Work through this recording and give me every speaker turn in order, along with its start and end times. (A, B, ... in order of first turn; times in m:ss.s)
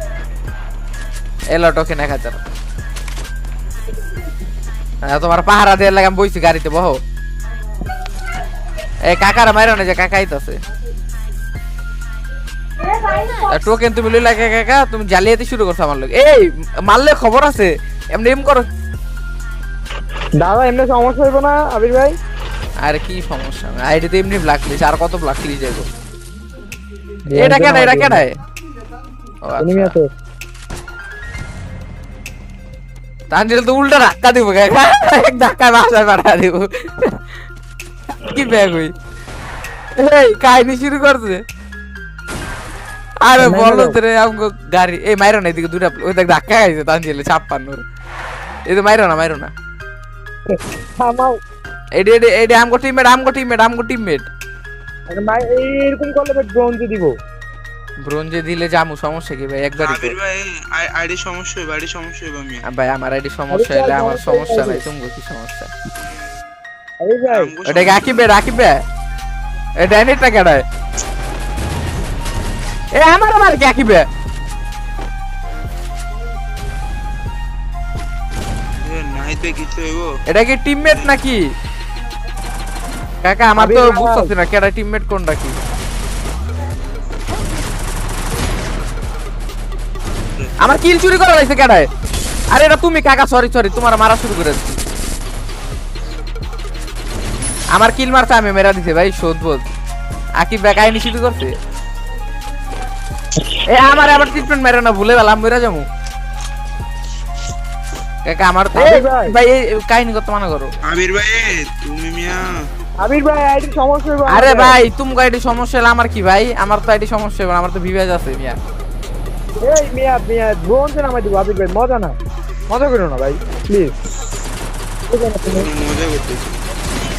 0:01.5-0:02.4 A
0:05.0-0:07.0 A
0:09.1-0:10.6 A
0:13.2-0:18.7 A
0:20.4-0:22.2 B
0:22.8-0:25.9 A
0:27.2-0:28.3 B
0:27.4-0:28.4 A
0:29.4-0:30.0 A
0:29.6-0:30.1 B
0:33.3-0:37.2 A
0:38.2-0:38.9 A
0:40.0-0:41.4 A
0:43.2-0:47.8 A
0:43.4-0:44.0 B
0:48.7-0:49.5 A
0:50.5-0:51.4 B
0:52.0-0:54.3 A
0:55.1-0:57.2 B
0:58.0-1:00.2 A
0:59.8-1:02.6 C
1:02.6-1:05.7 A
1:03.5-1:04.8 B
1:07.0-1:07.6 B
1:07.3-1:08.2 C
1:07.6-1:08.8 A
1:09.8-1:10.6 A
1:13.0-1:14.1 A
1:18.8-1:20.1 C
1:20.3-1:21.4 A
1:23.2-1:25.6 A
1:23.6-1:24.3 B
1:30.6-1:31.9 A
1:32.5-1:34.8 A
1:37.8-1:39.7 A
1:40.4-1:41.5 A
1:43.7-1:45.9 A
1:48.2-1:50.7 A
1:48.8-1:49.4 B
1:50.9-1:52.6 C
1:53.0-1:54.8 B
1:54.3-1:58.6 A
1:59.6-2:02.2 B
2:02.7-2:04.0 B
2:05.1-2:05.7 B
2:05.5-2:06.6 C